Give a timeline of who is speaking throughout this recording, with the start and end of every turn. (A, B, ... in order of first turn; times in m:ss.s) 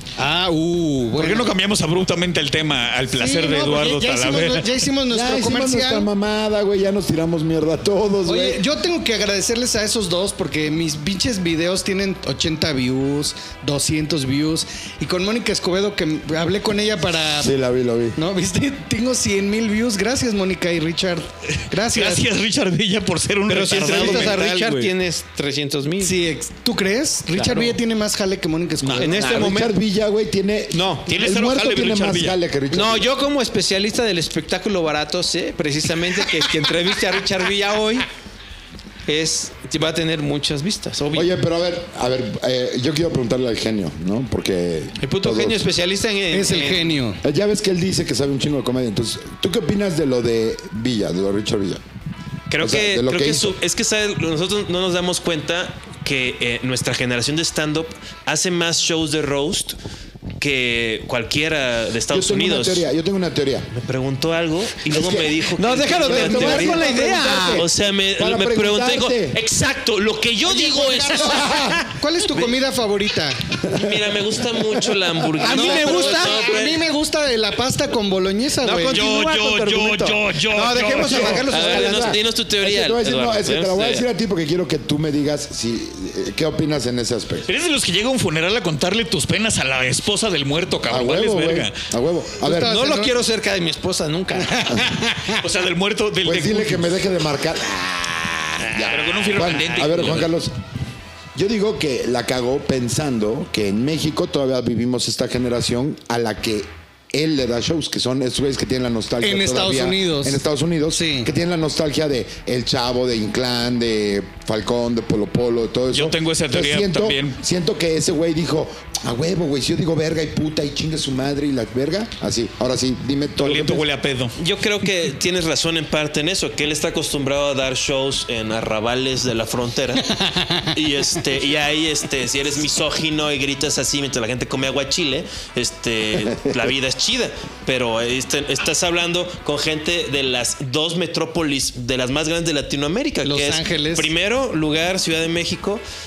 0:00.2-0:01.5 A
0:01.2-0:04.8 B
0:03.1-0:06.1 A
0:05.1-0:08.6 C
0:08.3-0:17.5 A
0:17.4-0:18.2 C
0:18.2-0:22.3 A
0:21.7-0:24.9 B
0:23.5-0:26.2 D
0:23.9-0:24.4 A
0:26.0-0:29.5 A
0:27.3-0:27.8 D
0:28.8-0:29.1 B
0:29.0-0:33.1 C
0:29.0-0:29.8 D
0:30.7-0:31.1 D
0:31.1-0:32.4 B
0:32.7-0:38.1 D
0:39.1-0:41.3 D
0:41.1-0:45.6 C
0:45.0-0:46.9 D
0:46.3-0:47.2 A
0:47.2-0:51.8 C
0:52.5-0:59.8 E
0:52.6-0:53.6 C
1:00.4-1:02.9 E
1:02.1-1:03.7 C
1:03.7-1:06.8 E
1:04.9-1:05.4 C
1:05.5-1:07.6 D
1:06.0-1:09.4 C
1:07.5-1:11.6 E
1:10.7-1:13.6 A
1:11.2-1:11.8 C
1:13.6-1:16.8 E
1:15.4-1:16.5 D
1:15.4-1:19.0 A
1:18.6-1:22.1 D
1:18.9-1:21.5 B
1:21.0-1:27.5 C
1:21.4-1:24.1 E
1:27.5-1:31.8 B
1:30.9-1:32.9 C
1:32.4-1:33.1 A
1:32.6-1:34.8 D
1:34.4-1:35.4 A
1:35.4-1:37.0 B
1:36.2-1:40.5 C
1:38.8-1:40.3 B
1:41.4-2:03.9 C
1:49.2-1:51.3 A
1:55.9-1:57.4 B
2:03.4-2:04.4 B
2:04.4-2:10.1 E
2:10.7-2:25.8 E
2:23.2-2:24.1 A